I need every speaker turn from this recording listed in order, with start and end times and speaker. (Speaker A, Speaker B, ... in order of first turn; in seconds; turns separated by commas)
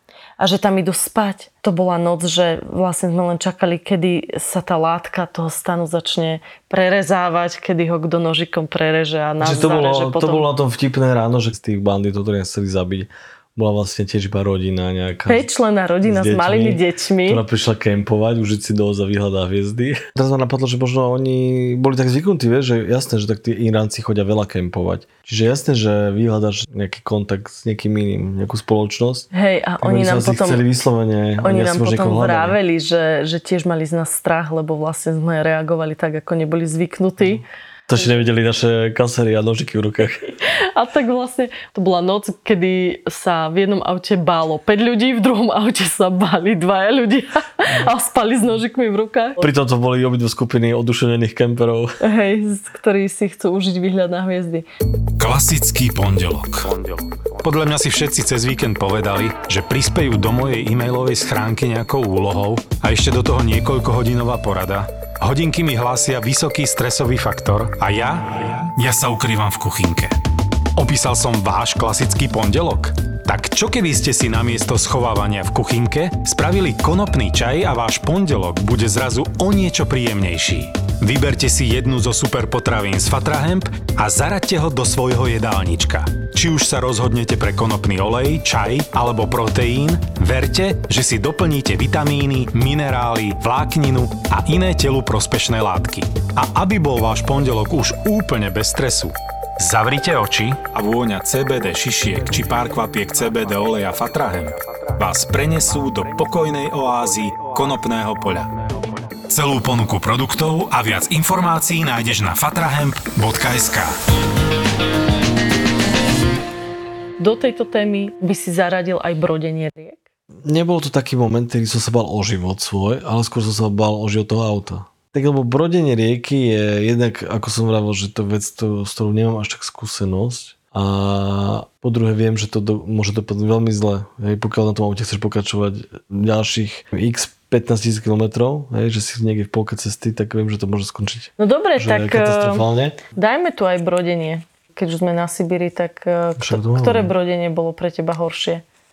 Speaker A: 0.4-10.5, Speaker B: 9.4-29.3, Speaker A: 15.3-17.4, Speaker A: 29.3-30.6, Speaker B: 29.8-32.6, Speaker A: 31.4-37.4, Speaker B: 37.9-40.3, Speaker A: 40.5-49.4, Speaker B: 49.4-52.0, Speaker A: 52.0-54.6, Speaker C: 55.2-70.2, Speaker C: 70.8-108.5, Speaker C: 109.3-113.9, Speaker A: 117.2-120.0, Speaker B: 120.4-143.0, Speaker A: 141.4-148.6, Speaker B: 146.4-147.1